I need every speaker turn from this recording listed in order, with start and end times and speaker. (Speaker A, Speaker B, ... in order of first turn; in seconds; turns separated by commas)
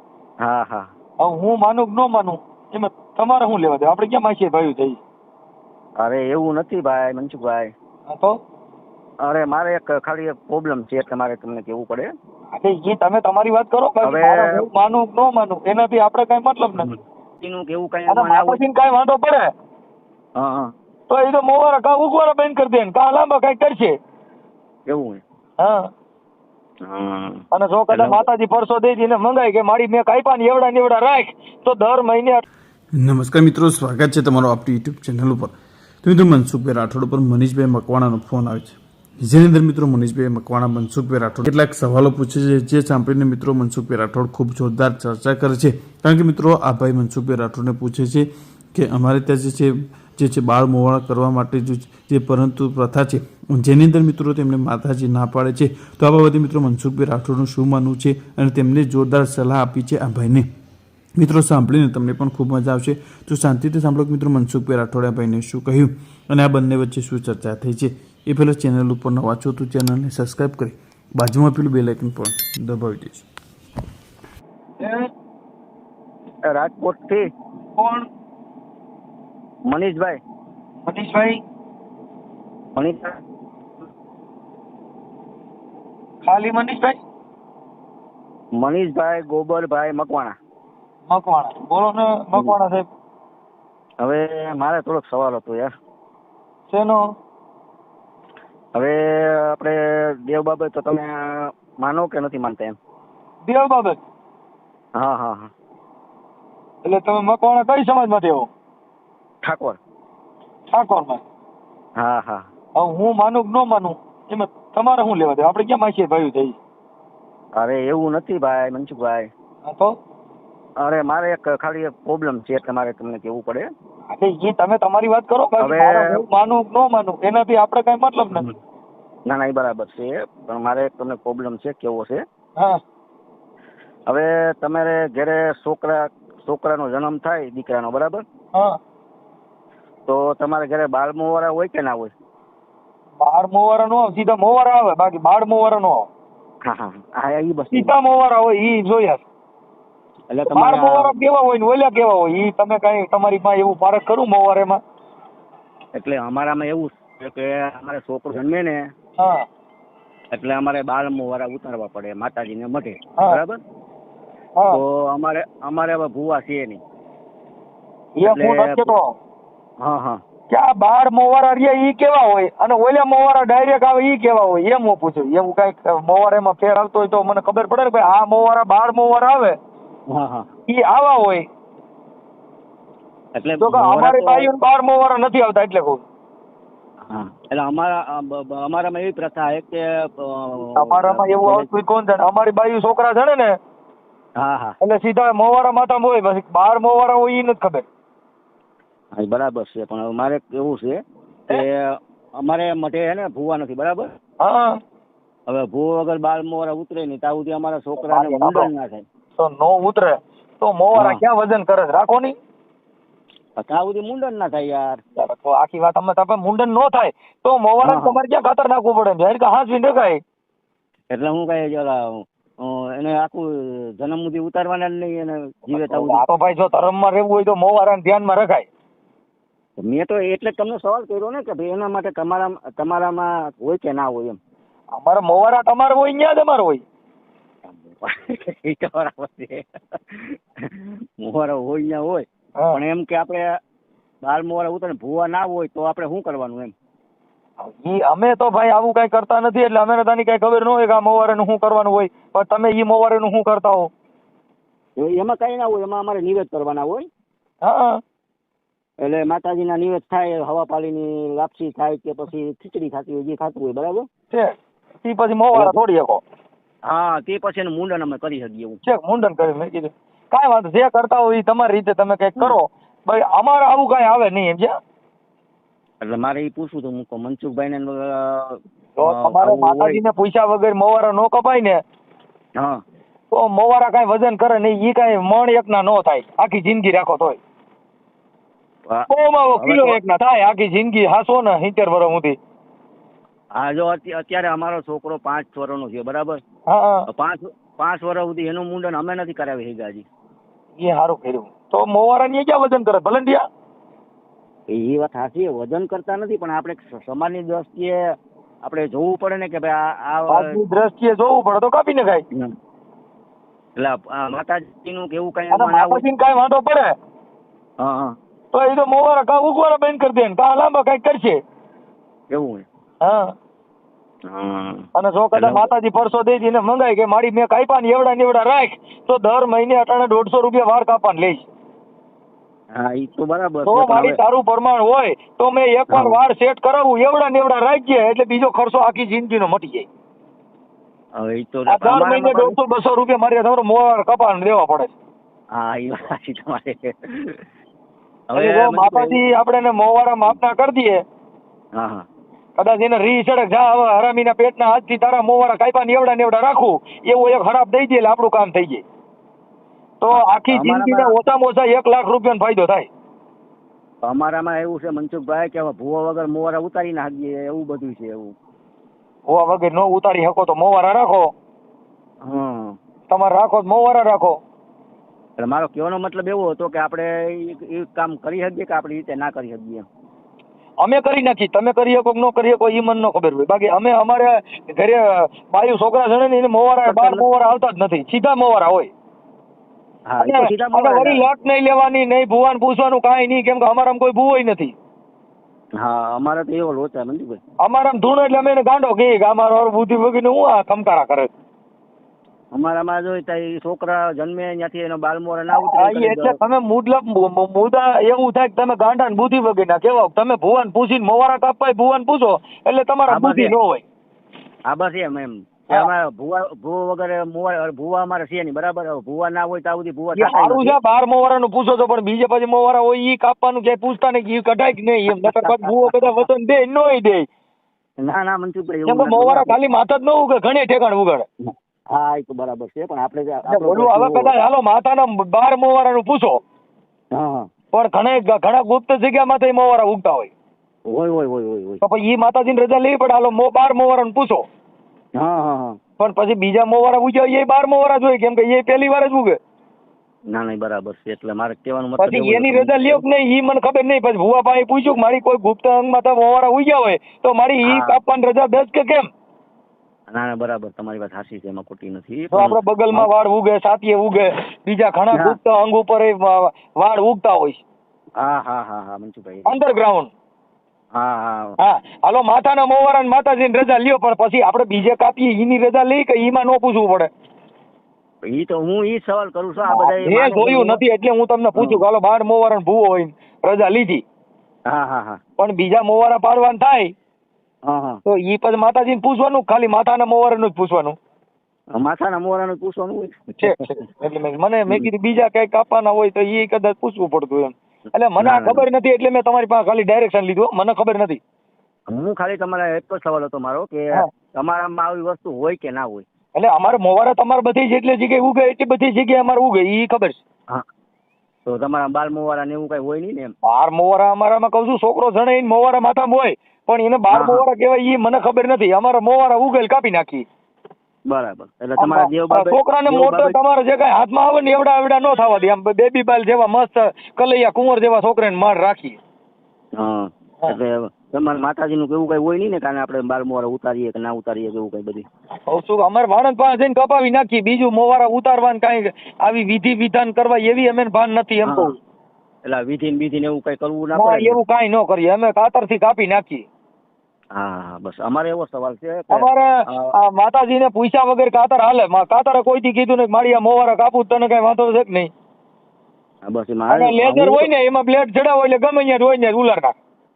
Speaker A: 0.4-0.9, Speaker B: 1.2-5.0, Speaker A: 6.0-7.7, Speaker B: 8.1-8.4, Speaker A: 9.2-12.1, Speaker B: 12.5-16.9, Speaker A: 14.0-14.7, Speaker A: 16.8-18.6, Speaker B: 18.1-19.5, Speaker A: 20.4-20.7, Speaker B: 21.1-23.9, Speaker A: 24.9-25.2, Speaker B: 25.6-25.9, Speaker A: 26.8-28.2, Speaker B: 27.5-32.4, Speaker C: 33.0-60.5, Speaker C: 61.2-73.2, Speaker B: 74.8-75.1, Speaker A: 76.5-77.3, Speaker B: 77.8-78.1, Speaker A: 79.7-80.2, Speaker B: 80.9-81.4, Speaker A: 82.7-83.2, Speaker B: 86.2-87.0, Speaker A: 88.5-90.3, Speaker B: 91.1-92.8, Speaker A: 94.0-95.7, Speaker B: 96.7-97.0, Speaker A: 98.7-102.8, Speaker B: 103.4-104.0, Speaker A: 104.9-105.5, Speaker B: 106.8-108.5, Speaker A: 109.4-109.8, Speaker B: 110.7-111.2, Speaker A: 112.0-112.5, Speaker B: 112.8-116.6, Speaker A: 117.5-119.3, Speaker B: 119.7-119.9, Speaker A: 120.8-123.7, Speaker B: 124.1-128.4, Speaker A: 125.6-126.2, Speaker A: 129.3-132.2, Speaker A: 134.1-138.2, Speaker A: 140.1-142.1, Speaker B: 143.2-146.1, Speaker A: 146.6-147.9, Speaker B: 147.7-149.3, Speaker A: 150.3-151.2, Speaker B: 150.5-154.8, Speaker A: 155.9-158.9, Speaker B: 159.2-159.4, Speaker A: 160.3-163.6, Speaker A: 164.7-166.8, Speaker B: 168.2-169.1, Speaker A: 168.2-168.9, Speaker A: 169.8-170.2, Speaker B: 170.5-179.5, Speaker A: 180.1-180.5, Speaker B: 180.7-181.4, Speaker A: 183.3-184.5, Speaker B: 183.6-186.0, Speaker A: 187.1-191.7, Speaker B: 190.8-193.5, Speaker A: 194.4-194.8, Speaker B: 194.8-197.8, Speaker A: 199.1-204.1, Speaker B: 204.4-204.8, Speaker A: 205.5-209.0, Speaker B: 208.0-208.7, Speaker B: 209.4-212.3, Speaker A: 210.9-211.2, Speaker A: 213.6-215.0, Speaker B: 215.2-220.2, Speaker A: 217.8-218.2, Speaker A: 221.1-226.2, Speaker B: 225.7-228.7, Speaker A: 229.8-234.4, Speaker B: 234.9-236.8, Speaker A: 237.7-243.6, Speaker A: 244.2-246.7, Speaker B: 247.6-253.9, Speaker A: 255.0-257.1, Speaker B: 257.6-258.0, Speaker A: 259.0-264.1, Speaker B: 264.3-266.2, Speaker A: 265.5-265.8, Speaker A: 266.8-268.8, Speaker B: 268.8-274.7, Speaker A: 276.0-280.0, Speaker B: 279.0-281.8, Speaker A: 282.6-282.8, Speaker B: 283.3-287.4, Speaker A: 288.9-290.0, Speaker B: 289.1-292.4, Speaker A: 293.5-296.4, Speaker B: 296.7-297.1, Speaker A: 297.1-300.1, Speaker B: 300.8-303.4, Speaker A: 304.7-310.6, Speaker B: 310.3-312.2, Speaker A: 313.8-316.1, Speaker B: 315.5-316.9, Speaker A: 317.8-318.2, Speaker B: 318.5-321.4, Speaker A: 322.3-322.6, Speaker B: 323.0-323.3, Speaker A: 324.3-325.7, Speaker B: 324.9-331.5, Speaker A: 332.7-334.2, Speaker B: 333.6-339.9, Speaker A: 335.9-336.2, Speaker A: 341.1-342.6, Speaker B: 341.7-344.9, Speaker A: 345.5-347.4, Speaker A: 348.3-349.2, Speaker B: 348.3-351.0, Speaker A: 351.7-352.0, Speaker B: 352.6-358.8, Speaker B: 360.0-362.9, Speaker A: 360.1-361.1, Speaker A: 364.0-368.4, Speaker B: 369.3-371.3, Speaker A: 372.2-372.8, Speaker B: 373.1-374.4, Speaker A: 375.4-379.9, Speaker B: 380.8-388.9, Speaker A: 386.8-387.2, Speaker A: 390.1-391.2, Speaker B: 390.2-394.7, Speaker A: 395.8-397.4, Speaker B: 397.6-401.3, Speaker A: 402.5-406.4, Speaker B: 405.5-413.8, Speaker A: 413.1-413.5, Speaker A: 414.6-420.8, Speaker B: 420.1-427.3, Speaker A: 425.1-426.3, Speaker A: 428.0-429.6, Speaker B: 428.9-431.2, Speaker A: 431.4-434.3, Speaker B: 433.5-436.4, Speaker A: 437.1-437.5, Speaker B: 437.7-440.3, Speaker A: 440.9-441.8, Speaker B: 441.8-444.4, Speaker A: 445.1-445.8, Speaker B: 446.0-449.4, Speaker A: 450.3-453.0, Speaker B: 452.0-459.1, Speaker A: 457.6-458.0, Speaker A: 460.1-463.1, Speaker B: 462.3-467.6, Speaker A: 468.2-469.6, Speaker B: 469.4-470.1, Speaker A: 470.9-471.6, Speaker B: 471.6-477.1, Speaker A: 478.2-480.8, Speaker B: 479.7-484.0, Speaker A: 481.6-481.8, Speaker A: 484.7-485.2, Speaker B: 485.4-486.9, Speaker A: 487.6-488.0, Speaker B: 488.1-490.9, Speaker A: 491.7-493.7, Speaker B: 493.4-501.2, Speaker A: 498.2-498.7, Speaker A: 501.9-506.1, Speaker B: 506.4-510.2, Speaker A: 511.4-513.3, Speaker B: 513.4-520.2, Speaker A: 517.1-517.4, Speaker A: 521.1-523.4, Speaker B: 521.8-529.0, Speaker A: 529.8-535.1, Speaker B: 535.5-541.8, Speaker A: 541.4-541.7, Speaker A: 542.4-544.4, Speaker B: 543.9-546.4, Speaker A: 547.3-549.9, Speaker B: 549.1-555.1, Speaker A: 556.2-557.5, Speaker B: 556.7-559.7